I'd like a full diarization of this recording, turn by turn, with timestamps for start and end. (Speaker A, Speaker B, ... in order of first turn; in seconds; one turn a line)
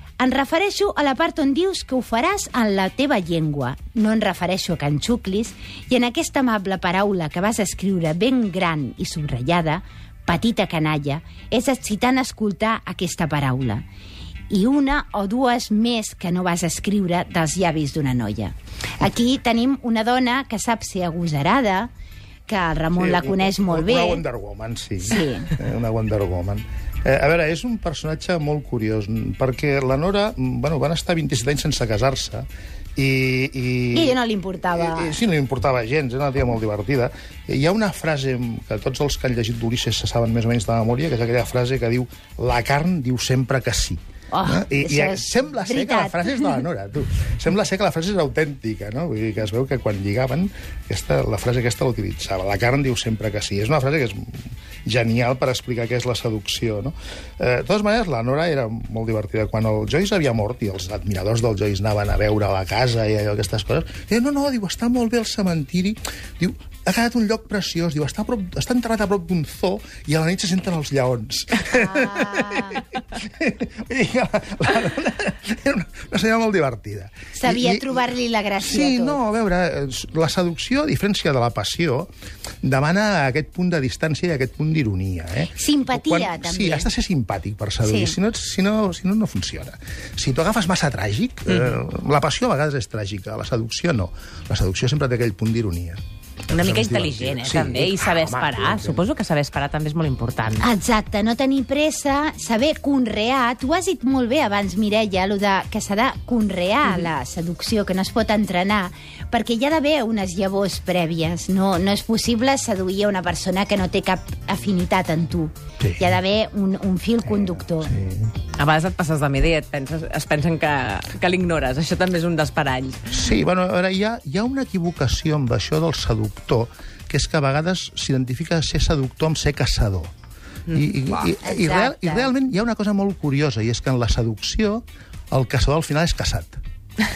Speaker A: 0.2-13.8
Speaker A: 14.5-21.9
Speaker A: 22.5-24.2
Speaker B: 22.9-34.2
Speaker A: 25.0-25.5
Speaker A: 33.9-35.2
Speaker B: 34.7-78.0
Speaker A: 44.3-46.6
Speaker A: 71.7-72.8
Speaker A: 77.3-79.2
Speaker B: 78.6-82.1
Speaker B: 82.6-99.0
Speaker A: 85.5-86.9
Speaker A: 87.8-88.2
Speaker C: 96.5-100.7
Speaker A: 100.6-117.9
Speaker B: 115.8-116.2
Speaker B: 117.4-118.3
Speaker C: 118.6-123.1
Speaker B: 123.1-130.1
Speaker B: 130.7-136.6
Speaker A: 131.4-132.3